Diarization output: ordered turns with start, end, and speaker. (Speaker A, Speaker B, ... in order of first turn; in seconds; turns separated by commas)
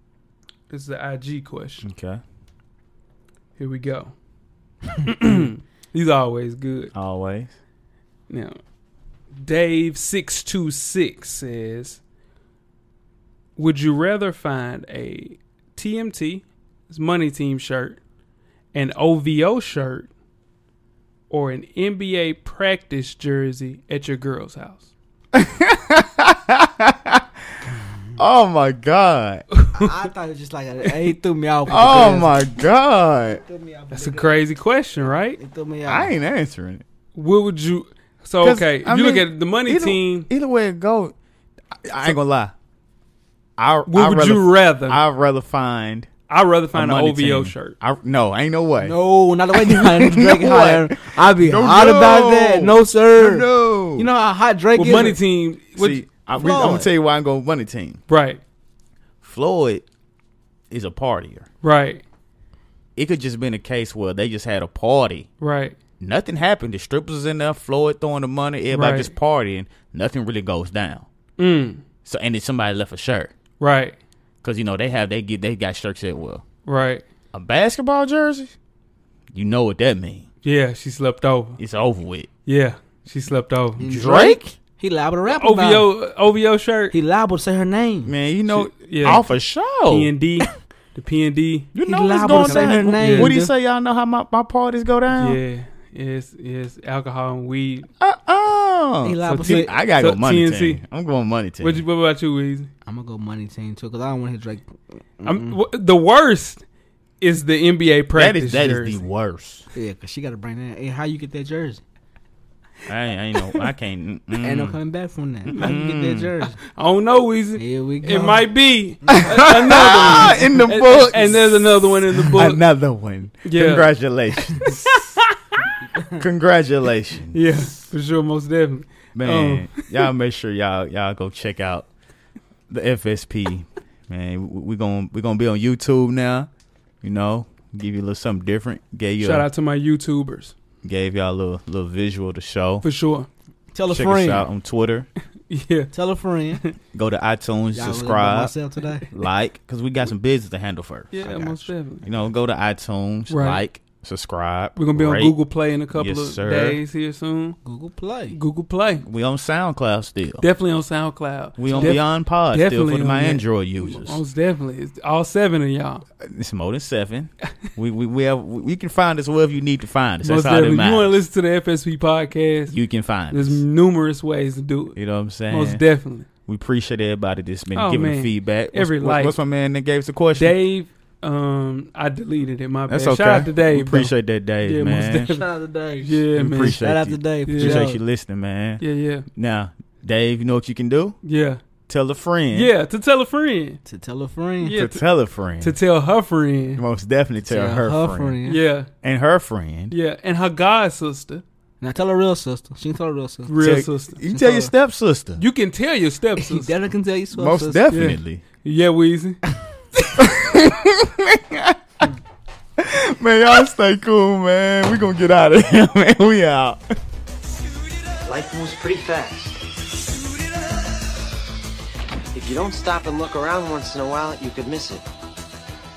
Speaker A: 0.7-1.9, Speaker B: 1.8-2.2, Speaker A: 3.6-4.1, Speaker A: 5.0-6.9, Speaker B: 6.9-7.5, Speaker A: 8.3-8.6, Speaker A: 9.3-12.0, Speaker A: 13.6-18.0, Speaker A: 18.7-20.1, Speaker A: 21.3-24.9, Speaker B: 25.3-27.2, Speaker B: 28.2-29.4, Speaker A: 29.5-30.0, Speaker C: 29.7-32.4, Speaker B: 31.7-33.4, Speaker A: 31.7-32.0, Speaker C: 33.4-34.3, Speaker A: 33.9-35.4, Speaker C: 35.4-36.1, Speaker B: 35.8-36.8, Speaker A: 37.1-40.3, Speaker B: 38.4-41.1, Speaker B: 41.7-42.5, Speaker B: 43.6-46.1, Speaker A: 43.9-45.0, Speaker A: 46.3-47.8, Speaker B: 46.7-49.0, Speaker C: 48.8-55.2, Speaker B: 49.5-54.1, Speaker A: 54.8-56.7, Speaker B: 55.8-58.0, Speaker C: 56.3-56.9, Speaker A: 58.1-58.4, Speaker B: 59.2-59.8, Speaker B: 60.7-61.5, Speaker A: 61.6-62.0, Speaker B: 63.0-65.3, Speaker A: 65.4-65.8, Speaker B: 66.0-71.1, Speaker A: 68.7-69.1, Speaker A: 71.4-71.8, Speaker B: 72.0-73.3, Speaker A: 73.6-74.0, Speaker B: 74.4-76.4, Speaker A: 76.7-77.0, Speaker B: 77.3-78.5, Speaker B: 79.3-80.2, Speaker A: 80.4-81.6, Speaker B: 81.6-82.3, Speaker A: 82.5-83.8, Speaker C: 83.8-85.9, Speaker B: 83.8-84.4, Speaker A: 85.3-86.9, Speaker C: 86.9-88.1, Speaker B: 88.0-90.1, Speaker A: 88.5-89.3, Speaker A: 89.8-93.3, Speaker B: 91.7-95.4, Speaker C: 91.8-93.5, Speaker A: 95.1-97.9, Speaker B: 98.0-101.8, Speaker C: 99.0-99.7, Speaker A: 99.2-100.8, Speaker A: 101.6-102.7, Speaker C: 102.8-105.6, Speaker A: 105.2-106.6, Speaker A: 107.2-109.0, Speaker B: 108.1-109.7, Speaker C: 109.7-111.8, Speaker B: 112.9-114.8, Speaker C: 114.4-116.6, Speaker B: 115.5-116.3, Speaker A: 116.7-122.6, Speaker C: 117.6-118.5, Speaker C: 119.0-120.3, Speaker B: 119.1-125.0, Speaker A: 123.4-123.9, Speaker A: 124.6-125.4, Speaker C: 125.9-126.2, Speaker B: 126.1-127.4, Speaker A: 127.3-130.1, Speaker B: 129.1-131.9, Speaker B: 132.7-136.5, Speaker B: 137.0-139.5, Speaker A: 139.2-140.5, Speaker B: 140.8-142.8, Speaker A: 142.8-143.3, Speaker C: 143.7-144.4, Speaker B: 143.9-145.1, Speaker A: 145.5-145.9, Speaker C: 145.9-146.6, Speaker B: 146.9-148.5, Speaker C: 147.7-149.1, Speaker B: 149.1-155.4, Speaker A: 151.1-152.1, Speaker A: 153.3-153.6, Speaker A: 154.8-157.6, Speaker B: 155.9-156.8, Speaker C: 157.6-158.4, Speaker A: 158.3-159.0, Speaker B: 159.0-160.4, Speaker A: 160.4-166.0, Speaker B: 161.6-164.2, Speaker C: 161.7-162.0, Speaker B: 166.2-171.2, Speaker A: 170.2-172.8, Speaker B: 172.7-173.6, Speaker A: 173.3-176.3, Speaker B: 174.9-175.8, Speaker B: 176.4-180.6, Speaker A: 177.7-179.4, Speaker A: 180.3-186.8, Speaker B: 182.9-185.3, Speaker C: 185.3-188.0, Speaker B: 186.3-188.8, Speaker A: 187.4-187.9, Speaker A: 188.8-189.2, Speaker B: 189.3-191.2, Speaker A: 191.2-191.6, Speaker B: 191.9-192.7, Speaker A: 192.5-193.8, Speaker C: 193.8-194.7, Speaker A: 194.6-195.0, Speaker B: 194.7-195.8, Speaker A: 195.6-196.8, Speaker B: 196.8-198.3, Speaker C: 197.4-198.6, Speaker A: 198.4-198.9, Speaker B: 199.0-199.9, Speaker A: 199.9-201.4, Speaker C: 201.8-203.5, Speaker A: 203.5-204.2, Speaker B: 203.6-205.4, Speaker C: 204.3-204.7, Speaker A: 205.4-206.7, Speaker C: 206.4-207.8, Speaker B: 207.3-208.4, Speaker A: 207.9-209.4, Speaker B: 210.2-211.8, Speaker B: 212.8-216.9, Speaker D: 218.2-219.7, Speaker D: 222.3-225.0